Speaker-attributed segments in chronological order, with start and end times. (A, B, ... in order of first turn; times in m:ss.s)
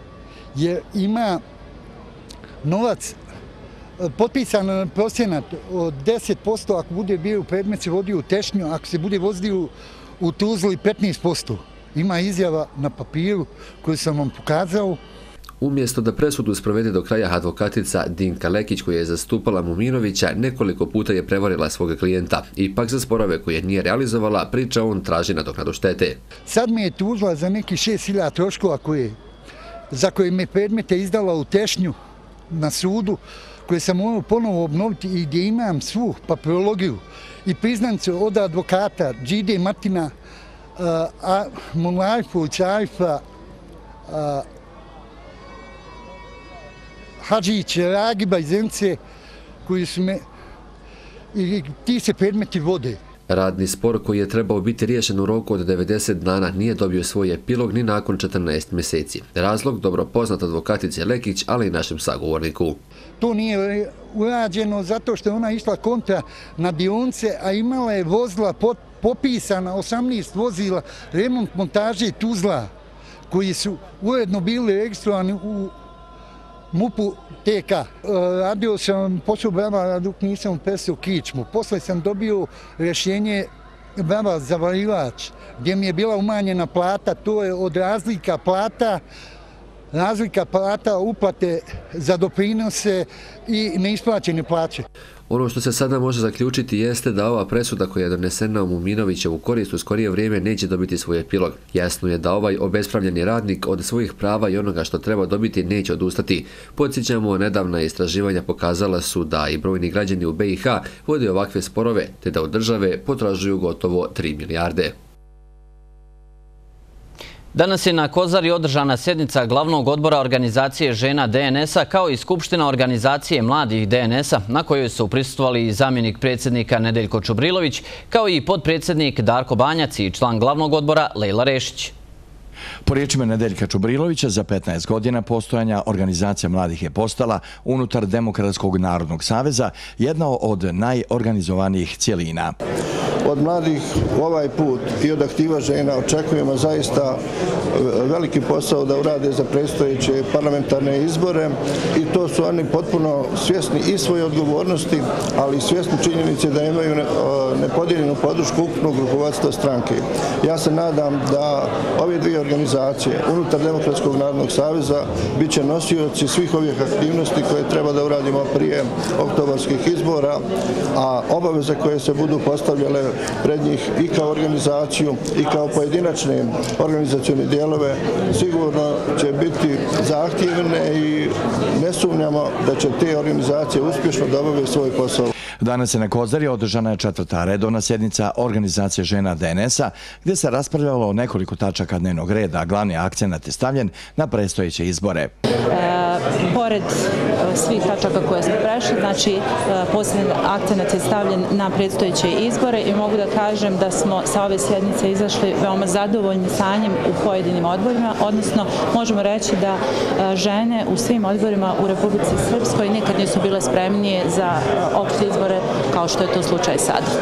0:00.5-0:01.4 A
0:02.6-0:03.2 A
0:04.0-0:15.0 A
0:15.6-0:26.2 B
0:26.5-0:29.2 A
0:29.9-0:32.0 A
0:32.5-0:40.1 A
0:40.8-0:43.2 A
0:44.1-0:44.4 A
0:47.2-0:49.0 A
0:49.6-0:50.2 A
0:51.3-0:53.0 A
0:53.3-1:02.8 B
1:03.2-1:12.7 A
1:13.3-1:15.7 A
1:16.7-1:29.0 A
1:29.9-1:34.8 A
1:35.3-1:54.9 B
1:57.5-2:11.9 C
2:12.8-2:22.5 D
2:23.2-2:27.2 E
2:27.7-3:05.3 E
3:05.6-3:15.3 D
3:15.7-3:37.1 F